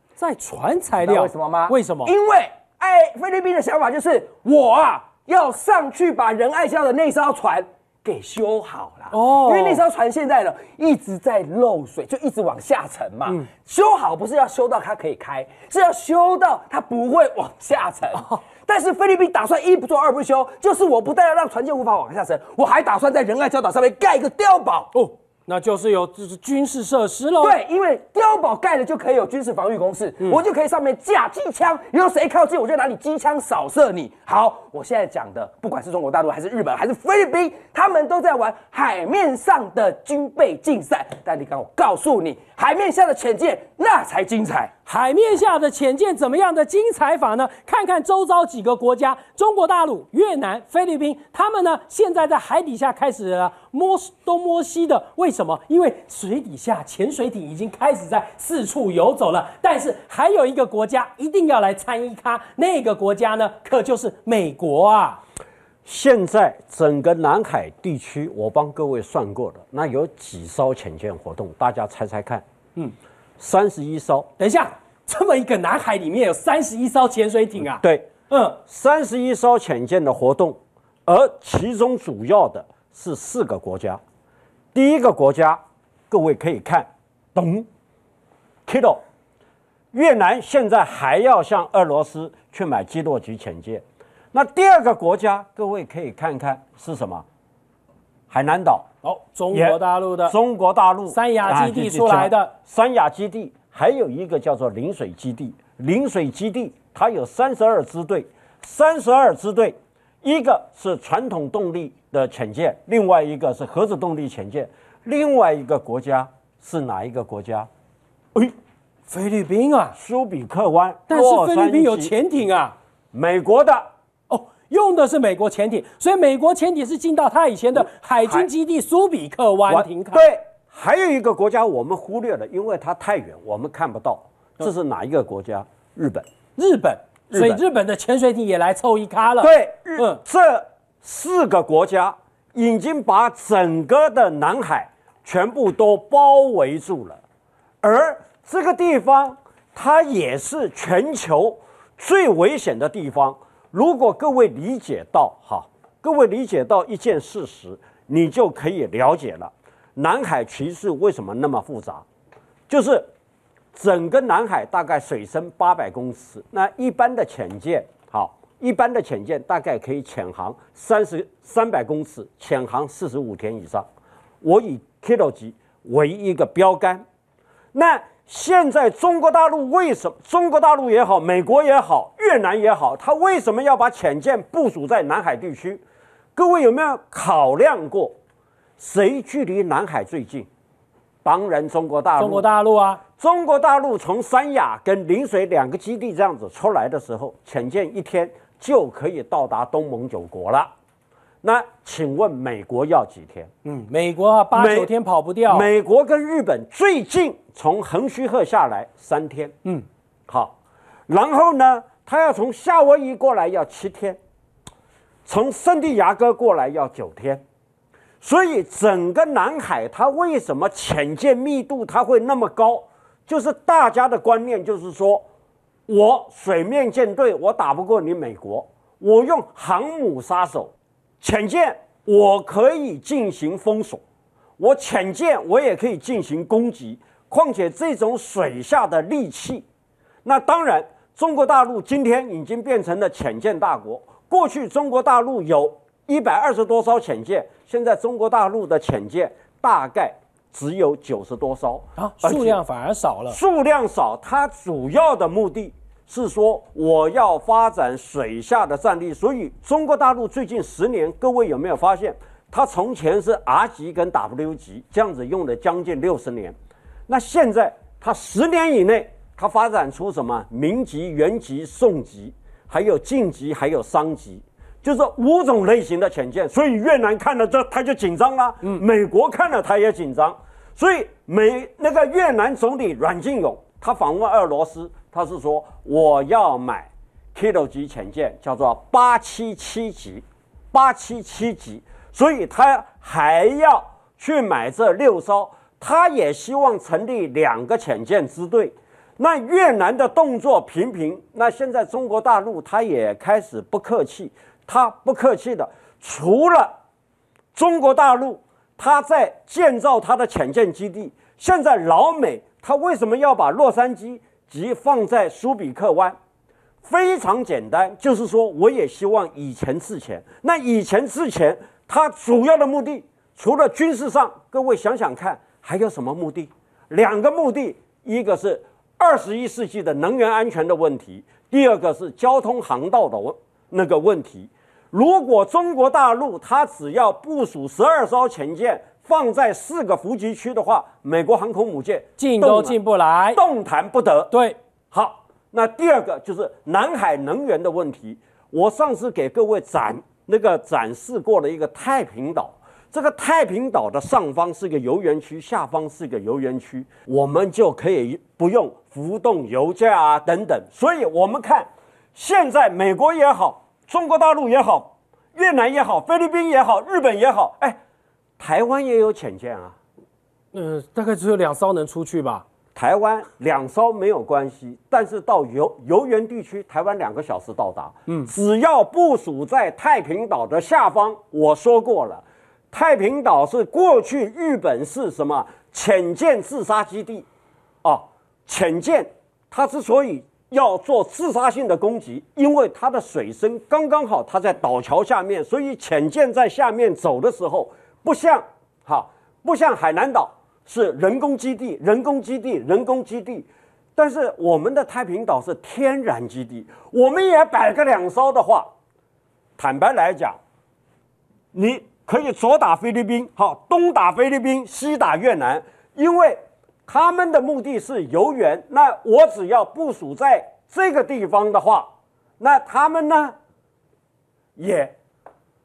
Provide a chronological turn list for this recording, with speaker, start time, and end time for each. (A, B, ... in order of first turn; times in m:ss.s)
0:00.2-0:02.1 A
0:01.0-0:24.9 B
0:09.1-0:09.8 A
0:24.9-0:27.6 A
0:27.4-0:44.7 B
0:44.9-1:05.2 A
1:05.8-1:12.4 C
1:13.4-1:14.3 C
1:14.4-1:18.6 A
1:17.8-1:18.1 C
1:18.6-1:24.0 C
1:24.7-1:27.7 C
1:28.7-1:29.0 C
1:29.9-1:37.2 C
1:38.3-1:38.9 C
1:39.0-1:40.4 A
1:39.5-1:57.7 C
1:41.1-1:42.5 A
1:59.1-2:00.0 A
2:00.0-2:02.1 C
2:01.1-2:02.8 A
2:03.1-2:03.9 C
2:04.3-2:10.3 A
2:09.7-2:16.3 C
2:16.6-2:20.2 A
2:17.3-2:17.6 C
2:19.4-2:27.2 C
2:27.8-2:42.0 C
2:42.7-2:43.1 C
2:43.7-2:53.9 C
2:54.4-2:57.0 C
2:57.7-3:05.8 C
3:06.4-3:08.2 C
3:08.8-3:10.5 C
3:11.2-3:12.5 C
3:12.2-3:13.0 A
3:13.2-3:20.7 C
3:21.4-3:23.5 C
3:23.6-3:25.7 A
3:24.5-3:24.9 C
3:25.5-3:29.5 C
3:30.3-3:30.6 C
3:31.1-3:34.2 C
3:35.3-3:37.4 C
3:38.2-3:45.3 C
3:45.9-3:54.0 C
3:54.6-3:59.6 C
4:00.2-4:12.6 C
4:12.0-4:13.4 A
4:13.3-4:26.6 C
4:27.1-5:06.7 C
5:07.5-5:16.2 C
5:16.8-5:42.8 C
5:42.2-5:43.4 A
5:43.3-5:44.3 C
5:44.3-5:44.6 A
5:44.9-6:07.8 C
6:08.4-6:09.8 C
6:10.5-6:12.4 A
6:12.8-6:27.3 C
6:27.8-6:48.7 C
6:49.6-6:50.4 C
6:51.5-7:03.4 C
7:04.6-7:05.0 C